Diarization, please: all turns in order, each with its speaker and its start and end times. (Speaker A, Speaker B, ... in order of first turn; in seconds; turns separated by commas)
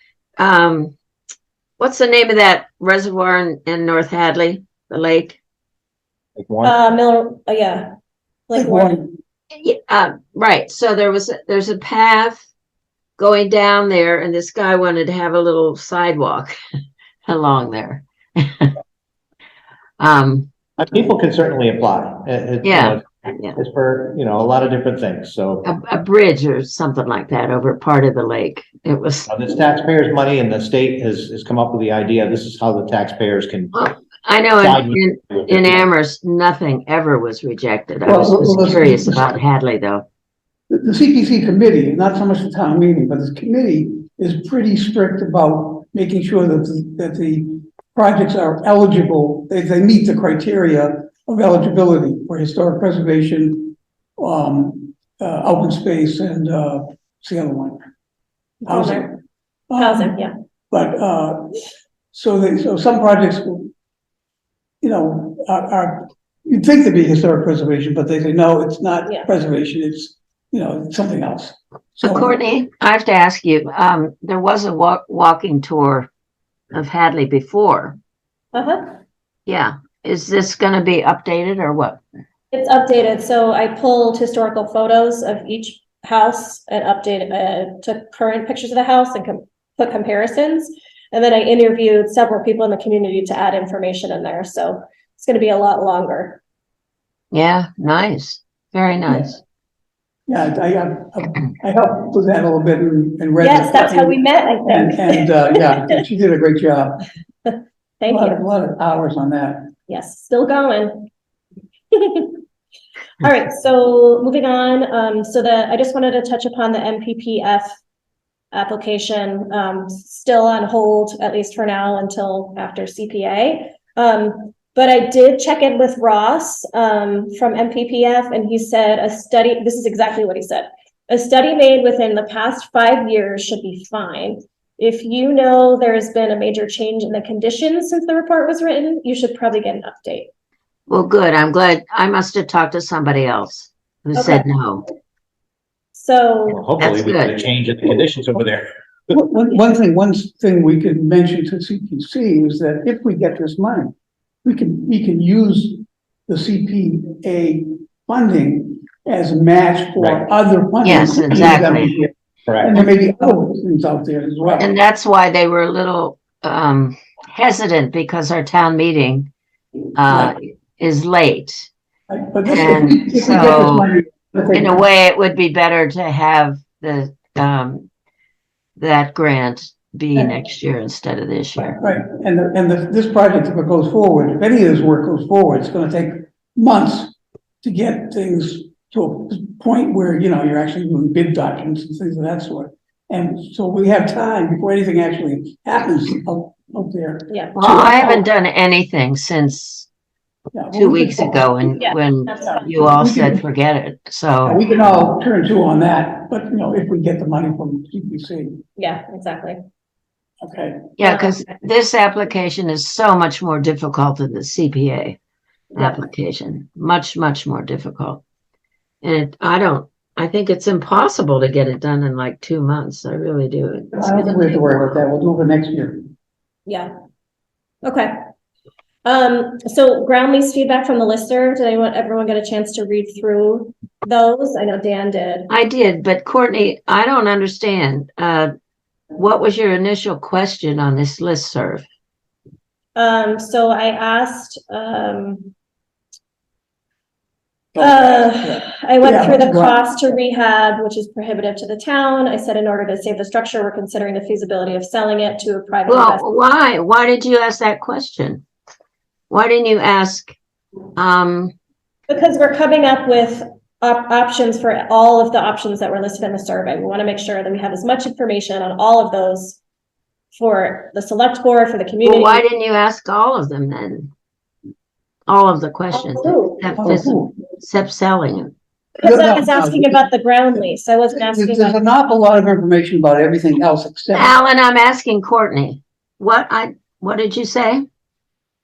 Speaker A: 0.4-0.9, Speaker A: 1.8-5.4, Speaker B: 6.4-6.8, Speaker C: 6.6-7.9, Speaker C: 8.5-9.0, Speaker D: 8.6-9.2, Speaker A: 9.5-12.4, Speaker A: 13.2-16.5, Speaker A: 17.2-18.7, Speaker A: 20.0-20.5, Speaker B: 20.8-25.7, Speaker A: 22.6-23.6, Speaker A: 25.6-29.3, Speaker B: 29.3-33.8, Speaker A: 33.7-40.1, Speaker B: 34.6-35.9, Speaker D: 38.0-39.2, Speaker D: 40.7-57.8, Speaker C: 58.6-59.1, Speaker D: 58.7-59.2, Speaker D: 59.7-60.2, Speaker C: 59.8-60.3, Speaker D: 60.7-63.7, Speaker D: 64.8-72.3, Speaker A: 72.0-76.1, Speaker A: 76.7-78.0, Speaker C: 78.5-78.9, Speaker A: 79.5-82.0, Speaker C: 82.5-96.4, Speaker A: 97.3-99.4, Speaker D: 100.3-107.1, Speaker C: 103.4-105.8, Speaker C: 107.5-108.4, Speaker D: 108.1-109.7, Speaker C: 109.9-111.1, Speaker C: 111.9-112.4, Speaker C: 113.2-117.7, Speaker C: 118.5-140.3, Speaker A: 140.9-144.9, Speaker C: 144.2-144.4, Speaker C: 145.9-146.6, Speaker B: 146.5-148.7, Speaker A: 146.8-147.4, Speaker D: 149.1-153.9, Speaker D: 154.4-164.7, Speaker A: 160.8-161.9, Speaker A: 164.6-169.3, Speaker A: 169.9-171.7, Speaker D: 170.1-170.3, Speaker D: 172.1-174.8, Speaker A: 172.4-173.9, Speaker A: 174.5-177.9, Speaker A: 178.8-181.8, Speaker D: 181.6-198.3, Speaker A: 197.6-199.9, Speaker D: 200.5-201.9, Speaker A: 200.7-204.6, Speaker C: 201.8-202.7, Speaker D: 202.4-203.4, Speaker D: 204.4-208.6, Speaker C: 208.8-209.6, Speaker D: 210.4-210.9, Speaker A: 211.0-215.2, Speaker C: 211.0-211.3, Speaker A: 215.8-218.2, Speaker A: 219.0-225.0, Speaker D: 223.9-226.1, Speaker C: 227.8-228.1, Speaker C: 229.1-235.5, Speaker A: 235.5-238.5, Speaker A: 239.1-241.9, Speaker C: 243.0-245.5, Speaker D: 247.7-249.8, Speaker C: 247.8-256.2, Speaker A: 255.9-258.4, Speaker A: 259.3-260.4, Speaker A: 261.0-261.5, Speaker C: 262.1-269.6, Speaker C: 270.3-272.4, Speaker A: 272.0-274.1, Speaker A: 275.3-278.5, Speaker C: 276.1-276.6, Speaker D: 276.8-277.4, Speaker C: 279.0-281.8, Speaker D: 279.0-280.1, Speaker D: 281.1-284.4, Speaker A: 284.1-287.8